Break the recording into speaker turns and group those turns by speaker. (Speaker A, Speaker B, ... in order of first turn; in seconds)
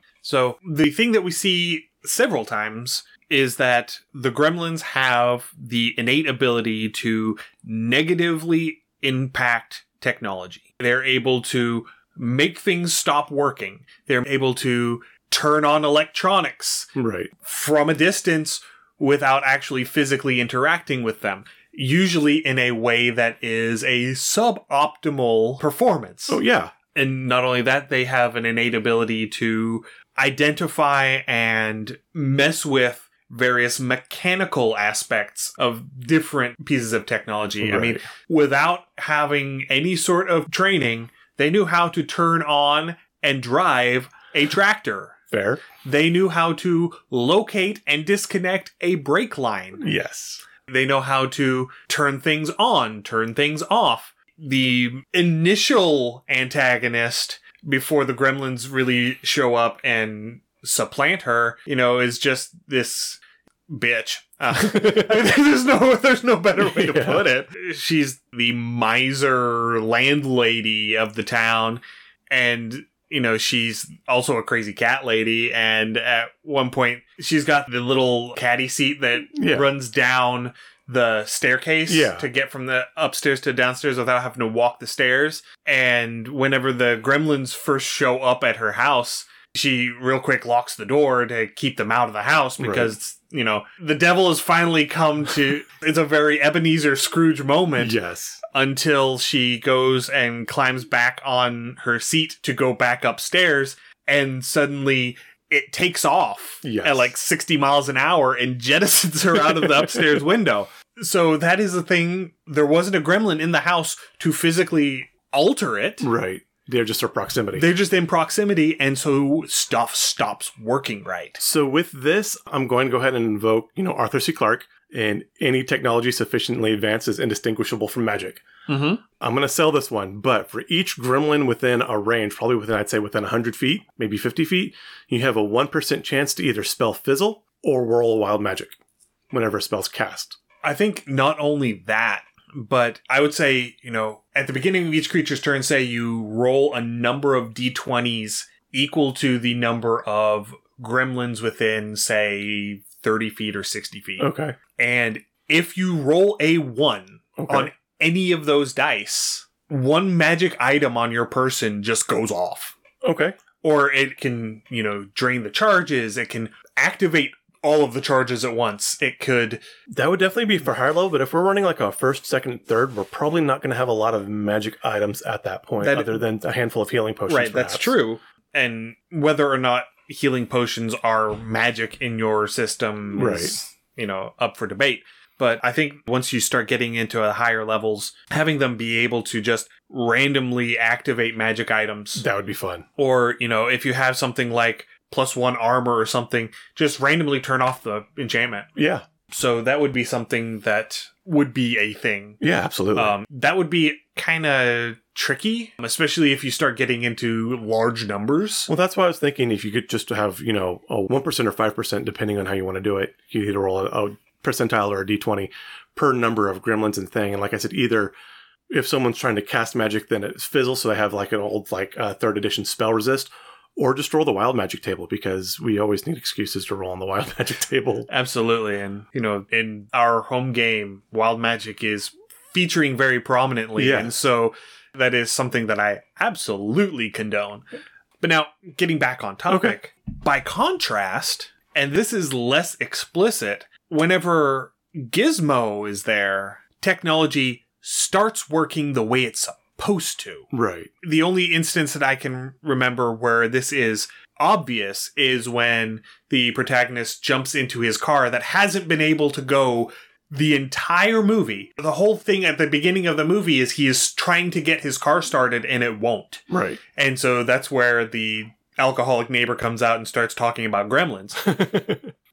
Speaker A: 0.2-26.4, 26.9-45.2, 45.8-49.9, 50.6-116.1, 117.6-121.4, 128.7-129.0, 140.6-162.8, 163.6-169.6, 175.8-176.2, 177.3-192.2, 193.0-198.7, 199.3-202.4, 202.9-208.7, 228.1-237.6, 238.2-250.5, 251.0-271.7
Speaker B: 17.0-17.3, 26.3-26.7, 37.6-38.1, 45.3-45.6, 49.8-50.4, 64.5-65.2, 66.6-67.2, 79.3-79.7, 81.9-82.3, 92.6-93.0, 97.8-98.4, 106.6-107.1, 109.4-110.2, 116.0-117.7, 121.4-128.4, 129.2-138.8, 139.3-140.4, 154.2-154.6, 157.4-157.7, 163.0-163.4, 169.9-178.0, 183.1-183.6, 192.2-192.9, 198.8-199.1, 202.4-203.2, 208.7-218.1, 218.7-228.1, 233.8-234.1, 239.5-239.8, 250.5-250.9, 266.5-266.8, 271.4-272.1